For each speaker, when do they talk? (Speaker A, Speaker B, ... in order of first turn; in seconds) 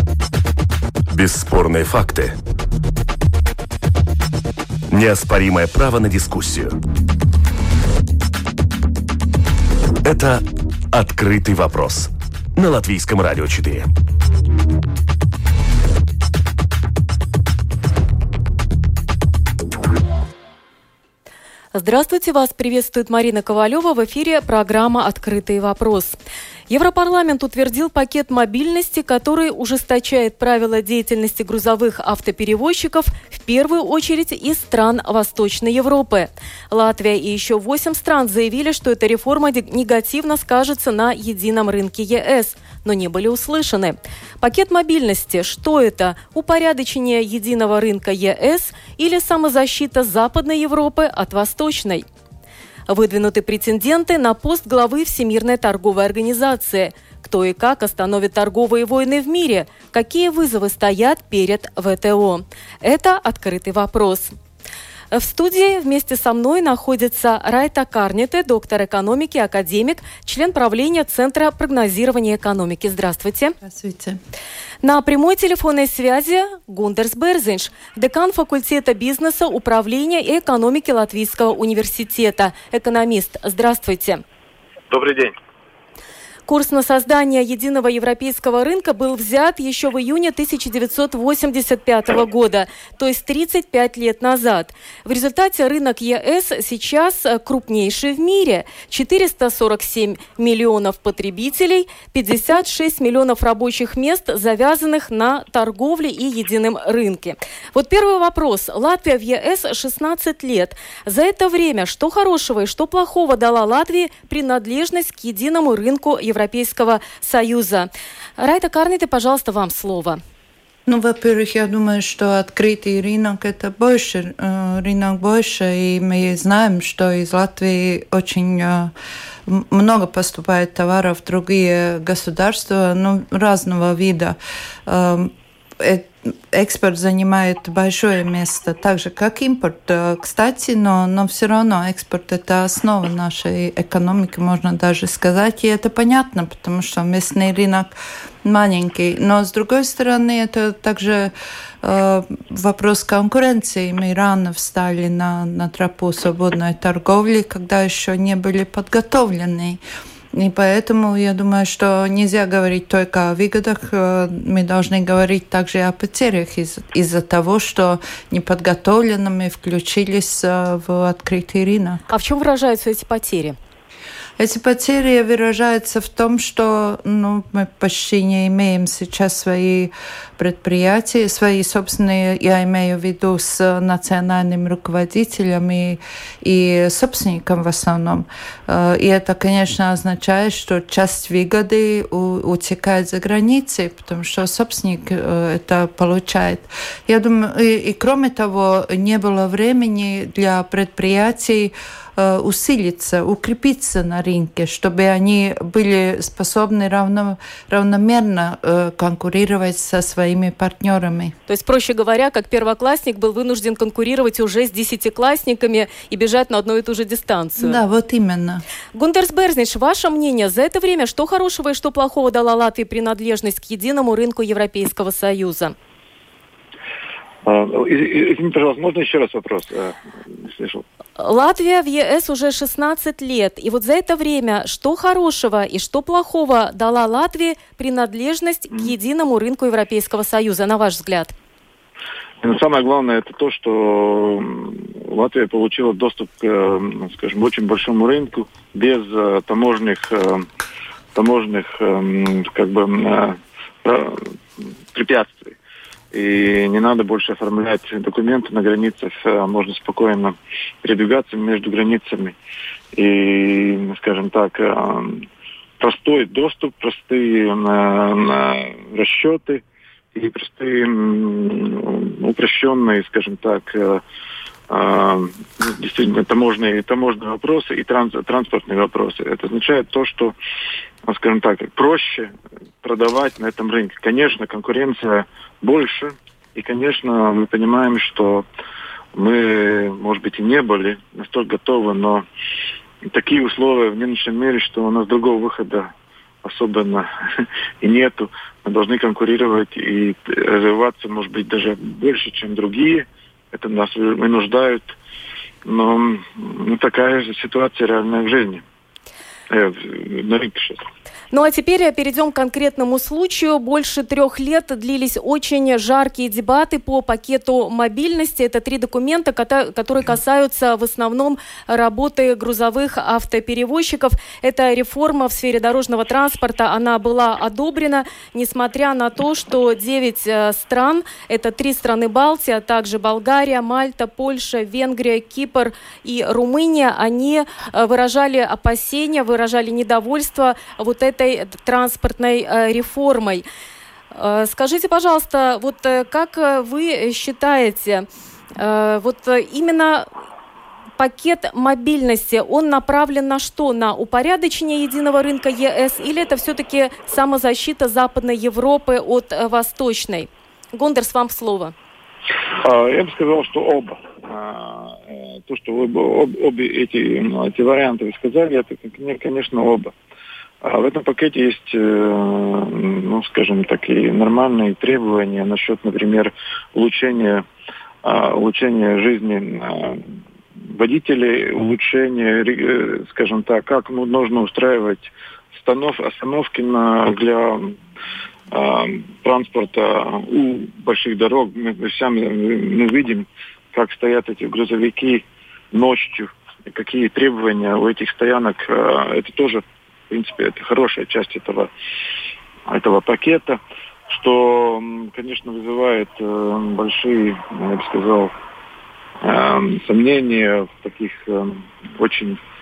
Speaker A: 1.1-2.4, 4.9-6.8, 10.0-13.9
Speaker B: 21.7-26.1, 26.7-52.0, 52.9-64.3, 65.1-73.5, 74.8-84.2, 86.5-120.2, 172.1-173.6, 211.5-217.8, 218.9-225.7, 231.2-241.3, 311.3-343.4, 344.1-350.1, 351.0-361.7
Speaker C: 73.6-74.2, 120.9-128.9, 129.4-159.8, 160.3-172.0, 174.4-211.3, 217.6-218.6
Speaker D: 84.9-85.3, 227.4-230.8, 242.4-250.4, 251.1-255.5, 256.1-262.4, 262.9-265.2, 265.8-269.6, 270.1-274.0, 274.7-280.3, 281.0-288.4, 289.1-292.2, 293.1-295.9, 296.4-304.9, 305.6-308.6, 309.5-310.8, 362.6-369.9, 370.6-377.4, 378.0-380.0, 380.6-387.8, 388.5-401.7, 402.7-408.3, 409.2-412.4